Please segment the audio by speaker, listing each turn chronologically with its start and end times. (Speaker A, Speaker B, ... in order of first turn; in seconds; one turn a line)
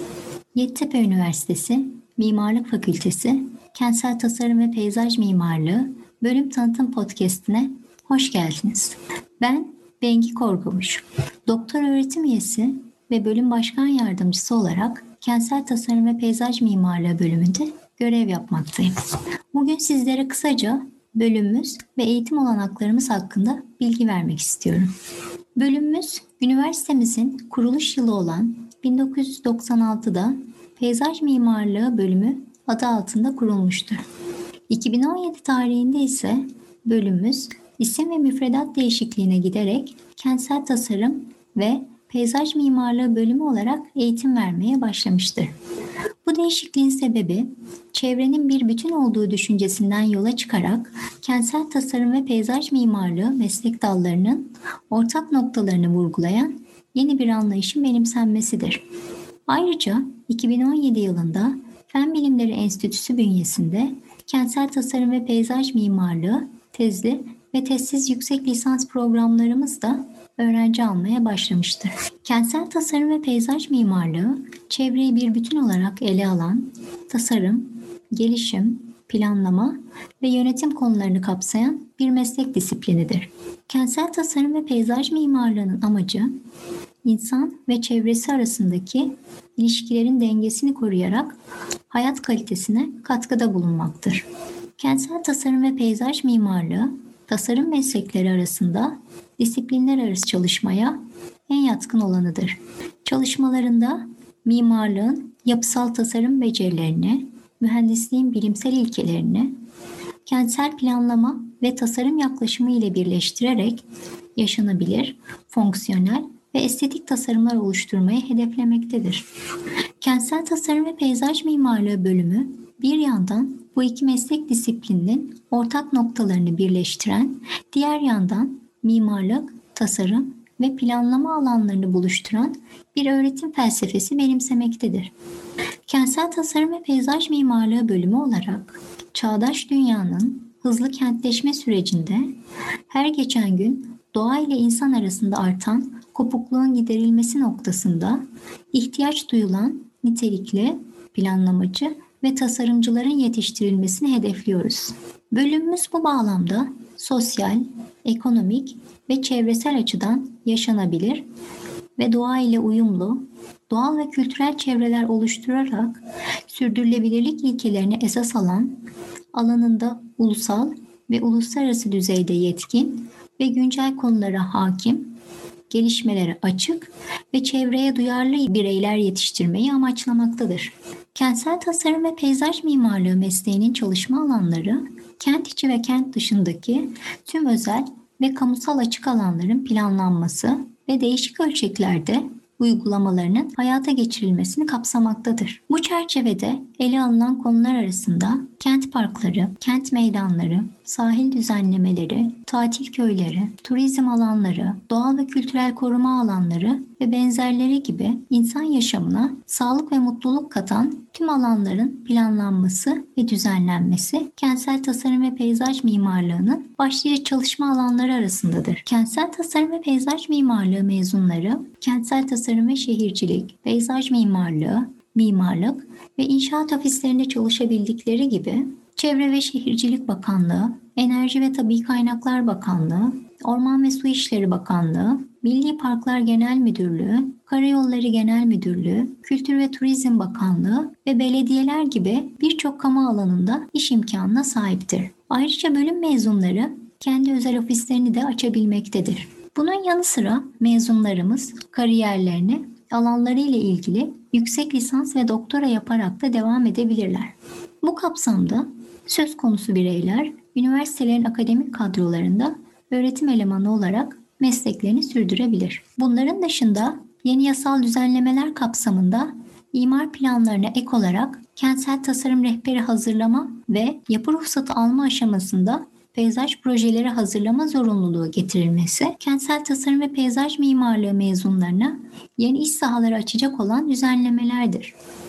Speaker A: 0.5-18.9
Speaker A: 19.5-24.9
Speaker A: 25.6-34.0
Speaker A: 34.7-45.5
Speaker A: 46.2-58.8
Speaker A: 59.5-86.3
Speaker A: 87.0-91.3
Speaker A: 91.9-94.2
Speaker A: 94.8-109.5
Speaker A: 110.2-113.8
Speaker A: 114.4-119.2
Speaker A: 120.0-135.1
Speaker A: 135.9-142.3
Speaker A: 142.9-161.2
Speaker A: 162.0-168.8
Speaker A: 169.3-175.1
Speaker A: 175.7-284.9